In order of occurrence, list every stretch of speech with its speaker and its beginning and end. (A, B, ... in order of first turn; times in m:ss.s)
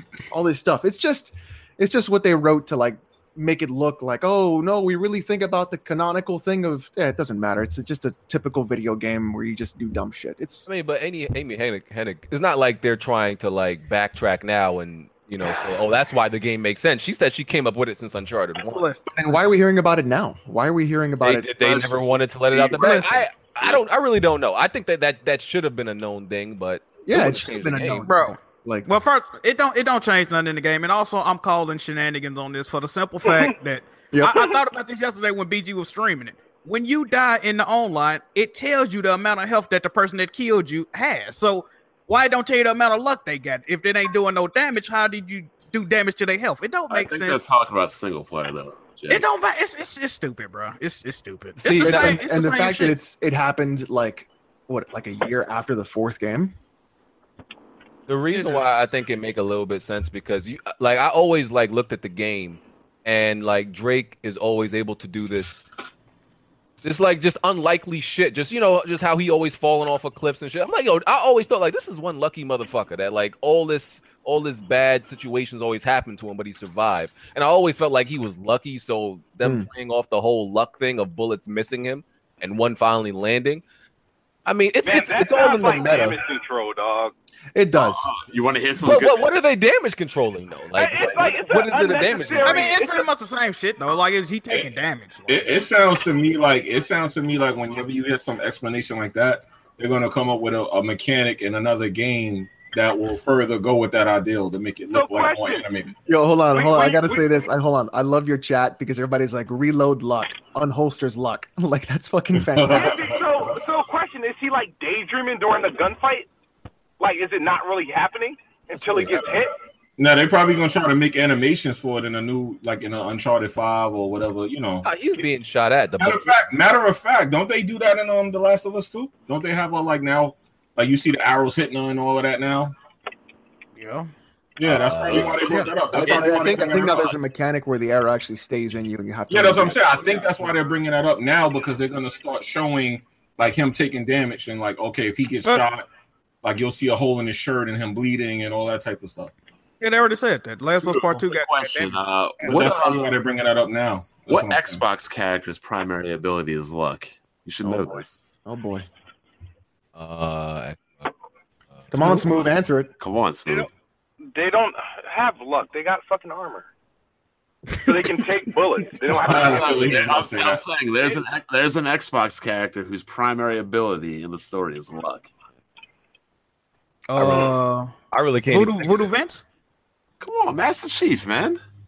0:00.3-0:10.7 A
0:10.7-0:18.9 B
0:18.7-0:19.0 C
0:19.1-0:21.9 A
0:21.2-0:28.1 B
0:22.6-0:22.9 C
0:27.1-0:28.9 A
0:28.0-0:47.4 C
0:46.9-0:49.3 D
0:49.1-0:53.0 C
0:51.6-0:52.2 B
0:51.8-0:56.6 A
0:58.1-1:05.6 B
0:58.3-0:58.7 C
1:06.8-1:23.6 B
1:19.4-1:19.7 A
1:24.5-1:26.2 B
1:24.8-1:27.1 E
1:27.5-1:28.1 A
1:27.8-1:29.3 D
1:28.8-1:32.8 B
1:30.8-1:33.1 E
1:32.4-1:35.6 C
1:35.3-1:45.9 F
1:44.9-1:45.7 E
1:46.1-1:53.2 A
1:46.5-1:47.4 E
1:52.3-1:53.7 F
1:52.7-1:56.3 E
1:57.0-1:59.5 E
1:59.0-1:59.4 F
2:00.0-2:04.9 F
2:04.8-2:06.4 B
2:06.0-2:12.8 F
2:13.8-2:14.1 C
2:14.6-2:17.2 F
2:14.7-2:15.4 B
2:15.1-2:15.5 D
2:15.4-2:15.7 C
2:15.9-2:20.4 A
2:19.3-2:25.9 F
2:20.0-2:20.2 D
2:26.4-2:29.3 F
2:29.8-2:32.8 C
2:30.8-2:33.1 D
2:32.4-2:34.8 F
2:34.3-2:38.4 D
2:37.6-2:38.9 A
2:40.0-2:41.1 B
2:41.8-2:42.3 B
2:41.9-2:42.9 A
2:43.0-2:43.7 D
2:44.3-2:46.7 E
2:47.8-2:50.0 E
2:49.1-2:50.6 F
2:49.3-2:55.3 D
2:57.1-2:57.9 C
2:57.2-2:57.6 D
2:58.1-2:59.1 B
2:58.5-2:59.4 C
3:00.2-3:01.6 D